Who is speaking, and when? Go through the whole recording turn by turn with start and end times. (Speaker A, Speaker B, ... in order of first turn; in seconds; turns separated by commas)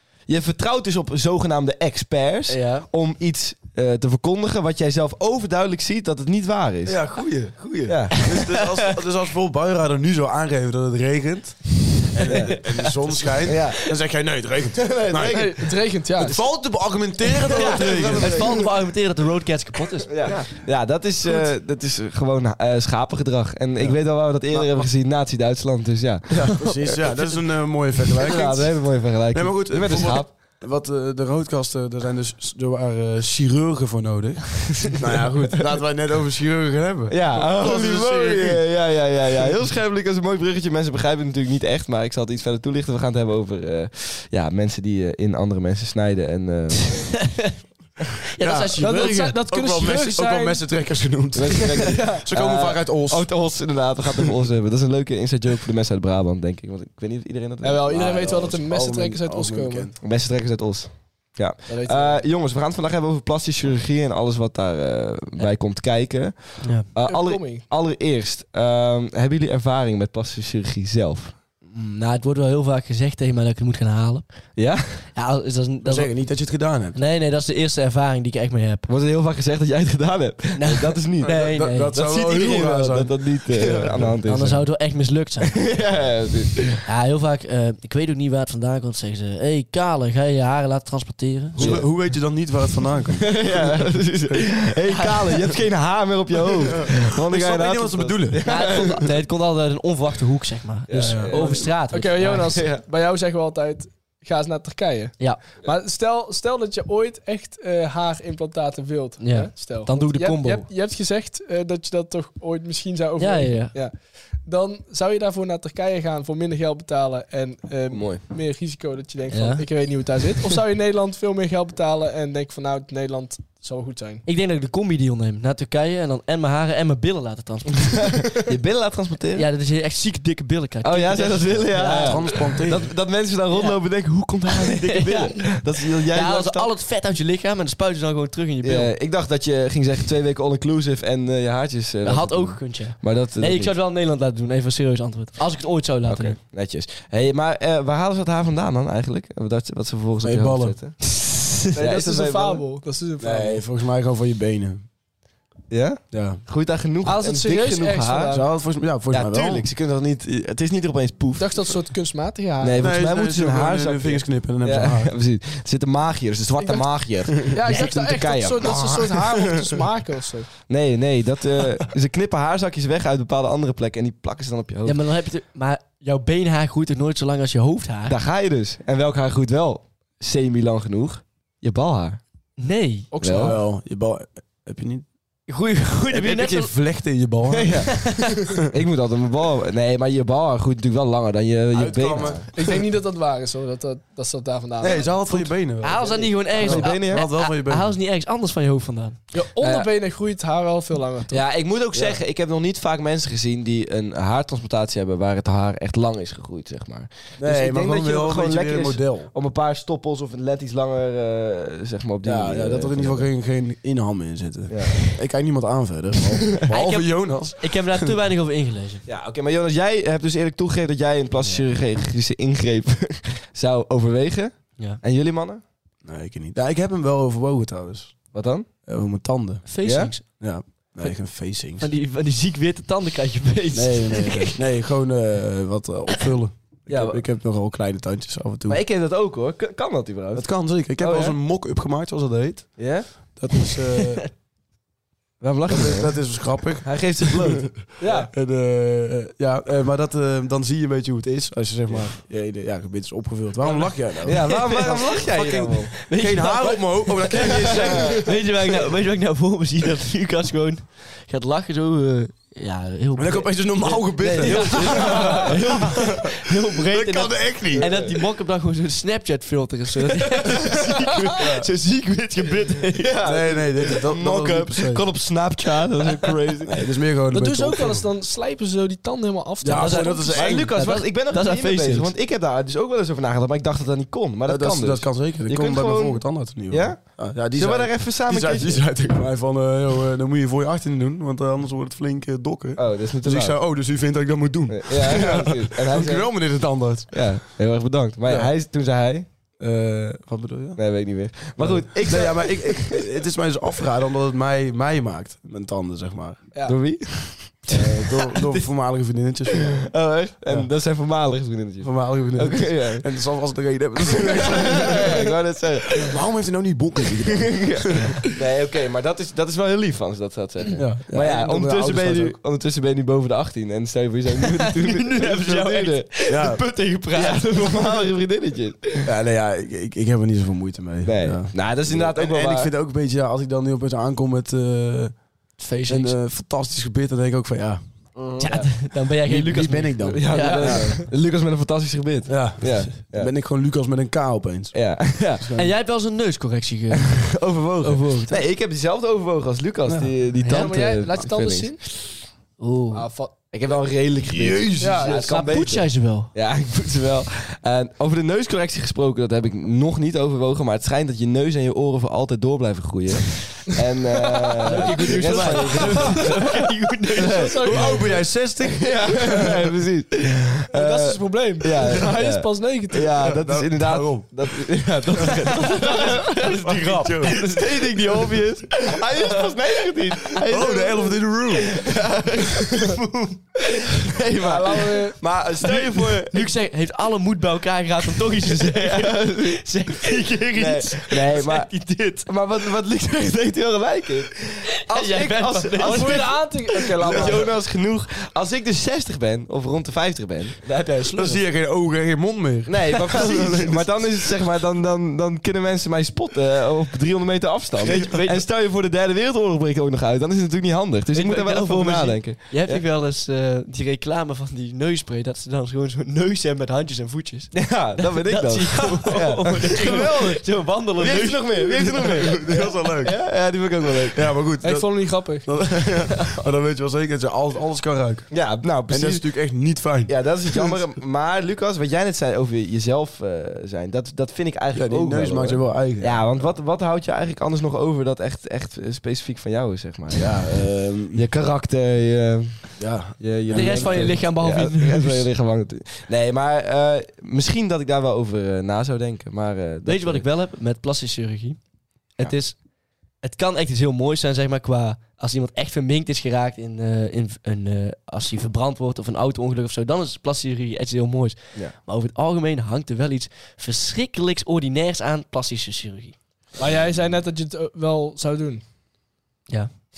Speaker A: 0.3-7.0, Speaker B: 2.5-2.9, Speaker C: 6.8-15.4, Speaker A: 7.8-8.2, Speaker B: 8.1-8.9, Speaker B: 12.2-13.9, Speaker A: 12.2-12.6, Speaker A: 13.4-13.8, Speaker A: 14.8-15.6, Speaker D: 15.3-16.4, Speaker C: 16.2-18.6, Speaker B: 17.4-20.3, Speaker A: 17.6-18.6, Speaker A: 20.1-27.0, Speaker C: 23.8-24.9, Speaker C: 26.3-28.7, Speaker B: 26.6-27.3, Speaker A: 28.1-30.3, Speaker C: 29.3-38.7, Speaker A: 37.1-47.0, Speaker B: 46.9-47.5, Speaker B: 48.3-49.3, Speaker C: 48.4-53.3, Speaker D: 48.8-50.6, Speaker A: 51.3-57.9, Speaker D: 51.7-52.2, Speaker D: 57.6-59.9, Speaker C: 57.9-60.0, Speaker A: 60.0-71.3, Speaker D: 61.7-62.2, Speaker D: 67.0-67.6, Speaker B: 71.7-74.3, Speaker A: 74.6-75.0, Speaker B: 75.2-76.1, Speaker C: 75.8-77.0, Speaker B: 76.9-78.8, Speaker A: 78.9-81.4, Speaker B: 80.5-82.0, Speaker C: 81.2-84.2, Speaker A: 81.9-84.6, Speaker B: 84.2-85.6, Speaker A: 85.5-86.8, Speaker B: 86.8-91.8, Speaker A: 91.6-91.9, Speaker C: 91.6-93.5, Speaker A: 93.2-99.0, Speaker B: 94.9-95.6, Speaker C: 96.7-98.5, Speaker B: 98.5-102.6, Speaker A: 100.9-101.6, Speaker C: 101.0-101.4, Speaker D: 101.3-113.9, Speaker B: 109.2-110.6, Speaker B: 113.2-113.7, Speaker D: 114.4-124.2, Speaker A: 117.9-118.2, Speaker B: 119.3-119.7, Speaker B: 124.2-128.3, Speaker A: 128.1-129.5, Speaker B: 129.3-132.6, Speaker A: 130.8-136.7, Speaker C: 131.8-132.9, Speaker B: 133.5-133.8, Speaker B: 134.5-138.9, Speaker A: 138.6-143.7, Speaker B: 142.0-146.4, Speaker A: 146.1-151.0, Speaker C: 150.2-150.8, Speaker B: 151.1-151.6, Speaker A: 151.7-152.6, Speaker D: 151.7-153.6, Speaker C: 153.2-154.8, Speaker A: 155.7-158.3, Speaker C: 156.1-156.4, Speaker D: 157.0-158.4, Speaker C: 158.3-159.7, Speaker A: 159.1-161.7, Speaker D: 161.3-162.9, Speaker A: 162.6-169.8, Speaker C: 162.8-165.1, Speaker D: 166.6-170.5, Speaker A: 170.7-175.0, Speaker B: 174.8-178.2, Speaker A: 178.1-182.2, Speaker B: 182.6-183.5, Speaker D: 183.1-183.6, Speaker A: 183.2-183.6, Speaker C: 183.4-185.0, Speaker B: 185.5-186.7, Speaker C: 186.1-188.6, Speaker A: 187.5-188.1, Speaker B: 187.9-188.4, Speaker A: 188.7-192.5, Speaker C: 191.7-192.5, Speaker D: 192.5-195.1, Speaker C: 194.8-198.0, Speaker B: 194.9-199.2, Speaker A: 196.6-197.3, Speaker D: 199.3-201.4, Speaker A: 199.6-199.9, Speaker A: 201.3-213.3, Speaker C: 207.4-209.3, Speaker C: 212.2-218.1, Speaker A: 214.7-215.0, Speaker B: 216.7-219.0, Speaker A: 219.1-225.6, Speaker C: 226.0-228.3, Speaker A: 228.3-228.7, Speaker C: 228.8-229.7, Speaker B: 229.7-230.4, Speaker A: 229.8-230.1, Speaker C: 230.2-231.9, Speaker B: 231.8-234.6, Speaker C: 233.7-238.8, Speaker A: 236.9-237.2, Speaker A: 238.7-241.3, Speaker C: 240.3-244.2, Speaker A: 242.8-243.1, Speaker A: 245.4-246.2, Speaker C: 245.7-254.5, Speaker A: 246.8-247.8, Speaker D: 248.0-248.3, Speaker B: 253.6-255.1, Speaker A: 254.2-255.9, Speaker C: 255.2-258.3, Speaker B: 256.0-273.2, Speaker A: 257.4-257.9, Speaker C: 263.1-268.0, Speaker D: 264.4-265.5, Speaker A: 265.4-266.0, Speaker A: 267.8-268.1, Speaker C: 271.4-271.6, Speaker A: 273.0-276.9, Speaker C: 273.2-275.0, Speaker C: 276.6-278.1, Speaker D: 277.3-280.4, Speaker C: 279.6-280.8, Speaker B: 279.8-282.1, Speaker A: 280.3-288.8, Speaker C: 284.5-297.1, Speaker A: 292.8-293.6, Speaker A: 294.7-296.3, Speaker A: 297.1-299.3, Speaker C: 299.6-300.8, Speaker A: 300.8-303.1, Speaker C: 301.6-306.4, Speaker A: 306.6-308.6, Speaker C: 307.7-309.9, Speaker A: 309.6-313.0, Speaker C: 311.8-315.2, Speaker A: 314.1-316.1, Speaker C: 316.0-318.2, Speaker A: 317.2-329.1, Speaker C: 320.7-322.4, Speaker B: 324.4-328.0, Speaker C: 326.3-326.6, Speaker C: 329.0-335.1, Speaker A: 331.0-332.7, Speaker B: 335.6-336.1, Speaker C: 335.9-338.4, Speaker A: 338.4-338.7, Speaker B: 338.4-340.9, Speaker C: 339.2-340.9, Speaker A: 340.1-343.3, Speaker D: 340.3-341.0, Speaker C: 342.3-345.7, Speaker A: 344.7-345.4, Speaker B: 345.6-348.4, Speaker A: 347.1-351.8, Speaker C: 349.9-350.1, Speaker D: 350.4-351.8, Speaker B: 352.6-353.1, Speaker D: 352.9-353.3, Speaker A: 353.5-366.4, Speaker C: 354.2-355.2, Speaker D: 354.8-355.3, Speaker B: 355.2-356.3, Speaker B: 364.6-367.8, Speaker D: 365.3-366.1, Speaker A: 367.1-367.6, Speaker D: 367.1-368.2, Speaker C: 367.6-369.6, Speaker A: 368.7-383.0, Speaker D: 370.7-373.3, Speaker C: 373.2-374.3, Speaker B: 375.5-376.2, Speaker C: 376.5-377.4, Speaker B: 376.9-378.4, Speaker C: 380.4-381.7, Speaker B: 382.6-385.1, Speaker A: 383.9-386.5, Speaker D: 384.4-385.0, Speaker B: 385.6-392.3, Speaker A: 388.4-400.6, Speaker B: 394.9-396.3, Speaker D: 395.8-397.5, Speaker C: 397.1-397.4, Speaker B: 400.6-401.4, Speaker C: 401.1-404.2, Speaker A: 402.6-412.8, Speaker B: 407.8-408.4, Speaker B: 411.1-422.2, Speaker A: 417.5-420.4, Speaker A: 421.0-424.2, Speaker C: 421.8-423.2, Speaker C: 424.1-428.3, Speaker D: 424.6-425.5, Speaker A: 428.3-429.2, Speaker C: 428.9-430.8, Speaker A: 430.1-440.4, Speaker C: 434.7-436.3, Speaker C: 440.1-441.2, Speaker A: 441.1-450.2, Speaker C: 442.8-444.2, Speaker B: 443.5-445.3, Speaker B: 449.9-451.6, Speaker B: 452.2-452.6, Speaker B: 453.2-466.1, Speaker D: 466.6-468.6